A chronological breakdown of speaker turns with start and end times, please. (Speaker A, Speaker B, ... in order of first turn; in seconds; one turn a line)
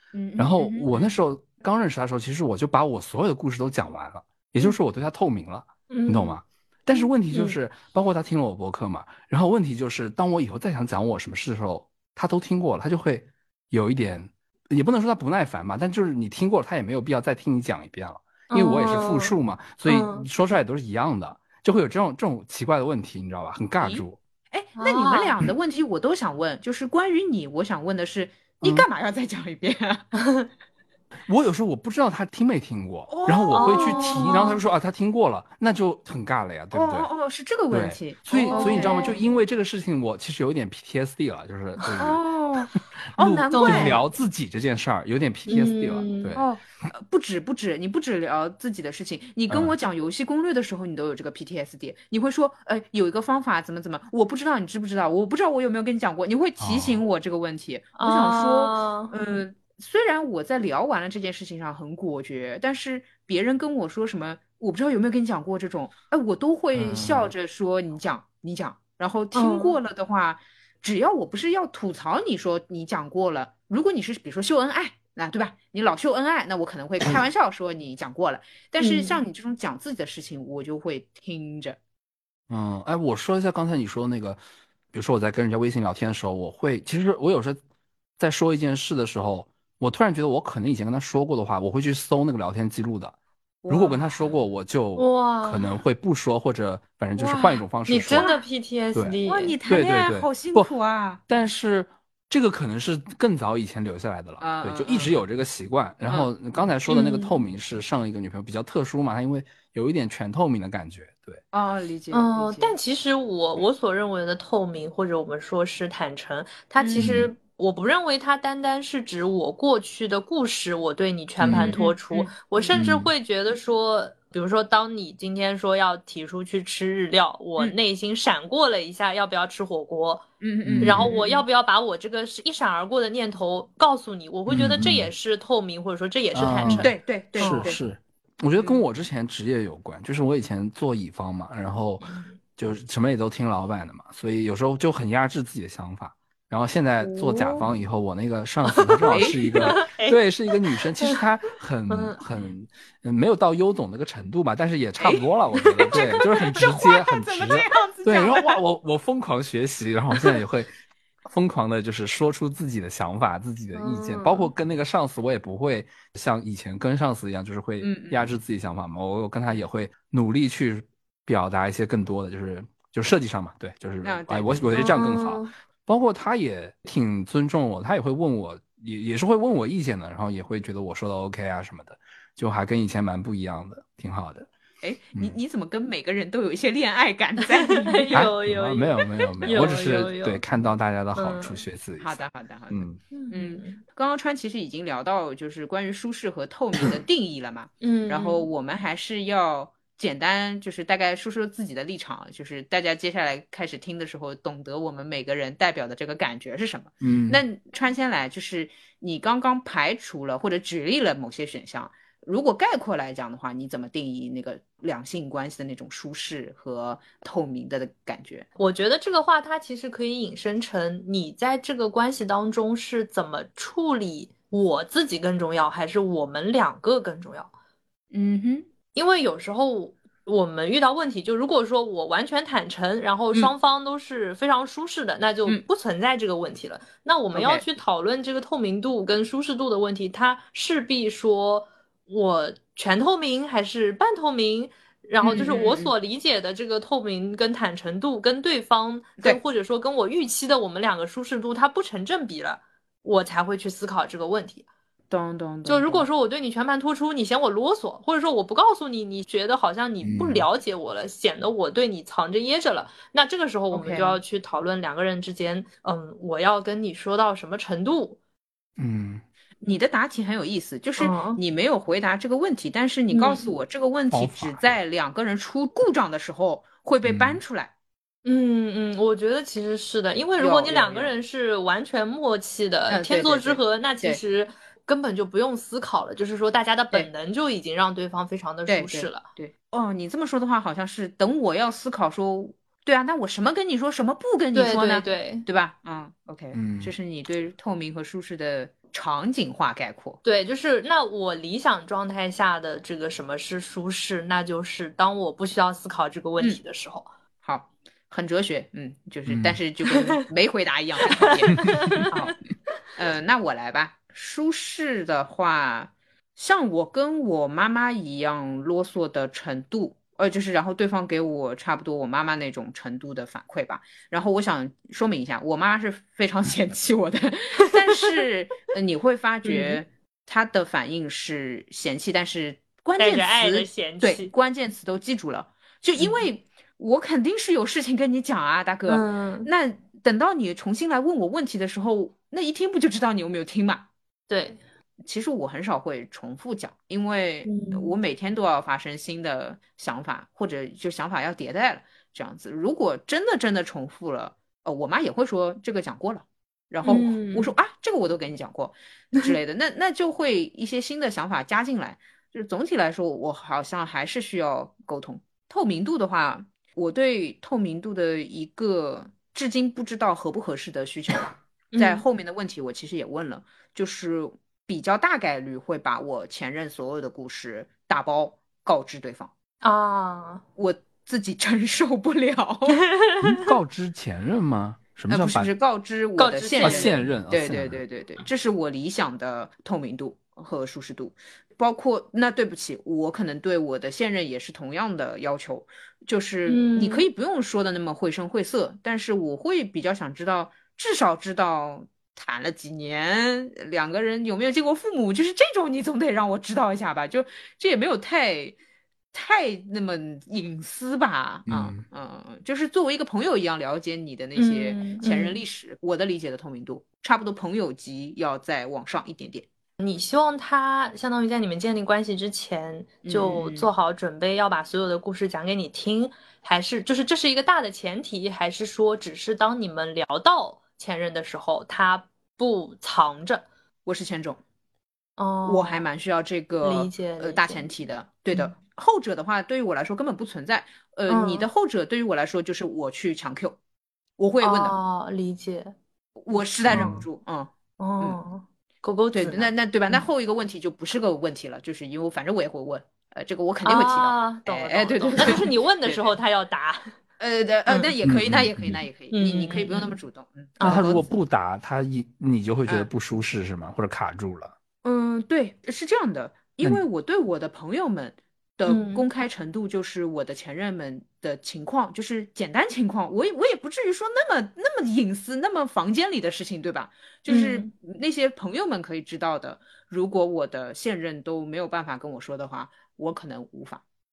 Speaker A: 0.1-1.2
Speaker B: 0.4-24.2
Speaker C: 5.9-6.3
Speaker C: 7.3-7.6
Speaker C: 18.5-19.3
Speaker C: 19.9-20.3
Speaker A: 23.8-30.1
Speaker C: 24.8-25.3
Speaker B: 28.6-28.9
Speaker B: 31.3-37.1
Speaker A: 33.1-34.5
Speaker C: 33.5-34.6
Speaker A: 36.7-39.2
Speaker B: 37.7-42.2
Speaker C: 38.4-39.2
Speaker A: 42.0-44.0
Speaker B: 43.1-46.4
Speaker C: 43.5-44.0
Speaker C: 45.5-46.4
Speaker A: 46.4-81.8
Speaker B: 56.6-57.0
Speaker C: 58.0-59.1
Speaker B: 66.7-67.3
Speaker C: 69.3-69.8
Speaker C: 78.8-79.2
Speaker B: 82.5-84.4
Speaker B: 84.9-87.6
Speaker B: 88.2-93.2
Speaker A: 93.6-94.3
Speaker B: 93.7-98.3
Speaker C: 95.0-95.8
Speaker A: 97.2-98.4
Speaker C: 97.9-99.5
Speaker B: 98.9-100.7
Speaker A: 99.2-101.2
Speaker B: 101.3-111.4
Speaker A: 104.4-105.2
Speaker C: 106.9-107.3
Speaker A: 111.5-112.7
Speaker C: 112.1-130.2
Speaker A: 116.8-117.2
Speaker B: 117.0-117.3
Speaker B: 121.4-121.8
Speaker A: 121.5-122.7
Speaker B: 122.7-123.1
Speaker A: 130.4-131.4
Speaker B: 130.6-131.1
Speaker C: 130.8-137.7
Speaker B: 134.5-135.1
Speaker B: 136.3-160.7
Speaker A: 136.7-137.8
Speaker C: 142.1-142.3
Speaker A: 147.1-147.6
Speaker C: 148.7-150.2
Speaker A: 149.1-149.7
Speaker C: 150.7-151.2
Speaker C: 151.9-152.2
Speaker A: 155.0-155.3
Speaker C: 155.6-156.2
Speaker A: 155.9-158.6
Speaker B: 161.2-184.5
Speaker C: 163.7-164.5
Speaker A: 167.8-168.3
Speaker A: 174.0-175.0
Speaker C: 174.7-175.5
Speaker A: 184.8-188.3
Speaker C: 187.7-190.4
Speaker B: 188.1-193.0
Speaker A: 189.4-189.8
Speaker C: 191.1-191.6
Speaker A: 192.0-218.4
Speaker C: 193.1-193.8
Speaker C: 197.8-198.5
Speaker B: 207.0-207.4
Speaker C: 218.6-227.5
Speaker A: 228.1-228.7
Speaker C: 228.9-254.7
Speaker A: 237.3-237.7
Speaker A: 245.2-245.9
Speaker A: 255.1-256.1
Speaker C: 255.7-268.2
Speaker B: 260.0-260.4
Speaker A: 263.7-264.2
Speaker B: 268.8-269.2
Speaker A: 269.6-277.7
Speaker C: 271.0-271.4
Speaker C: 273.1-273.4
Speaker B: 274.1-274.8
Speaker B: 277.0-277.4
Speaker C: 278.2-289.2
Speaker A: 280.4-281.1
Speaker A: 282.9-284.2
Speaker A: 288.7-300.2
Speaker C: 294.5-295.4
Speaker B: 296.5-296.9
Speaker C: 300.2-307.1
Speaker A: 307.4-312.4
Speaker B: 309.3-309.6
Speaker C: 311.2-312.1
Speaker A: 312.9-343.9
Speaker C: 329.4-329.8
Speaker C: 333.0-334.3
Speaker C: 336.0-336.2
Speaker C: 338.9-339.5
Speaker C: 344.3-344.6
Speaker A: 345.0-379.3
Speaker C: 347.4-347.9
Speaker C: 356.8-357.5
Speaker C: 371.7-372.0
Speaker C: 379.6-380.4
Speaker A: 380.6-382.8
Speaker C: 382.8-383.5
Speaker B: 383.2-385.5
Speaker A: 385.1-408.6
Speaker C: 386.2-387.0
Speaker B: 386.6-387.8
Speaker C: 396.4-397.1
Speaker A: 409.1-419.4
Speaker B: 411.5-411.8
Speaker C: 414.4-415.4
Speaker C: 419.8-433.4
Speaker A: 423.0-423.7
Speaker A: 433.9-434.4
Speaker C: 435.2-435.9
Speaker A: 435.4-443.6
Speaker C: 436.6-437.6
Speaker C: 441.1-441.5
Speaker A: 444.2-444.8
Speaker C: 444.4-445.7
Speaker A: 446.2-448.2
Speaker B: 446.7-447.1
Speaker C: 447.8-450.0
Speaker A: 449.1-456.1
Speaker C: 453.6-456.9
Speaker A: 457.2-461.0
Speaker C: 457.7-457.9
Speaker B: 458.0-458.8
Speaker C: 459.1-459.9
Speaker C: 460.6-461.0
Speaker B: 460.6-464.5
Speaker A: 464.8-483.8
Speaker C: 468.6-469.0
Speaker C: 477.3-477.7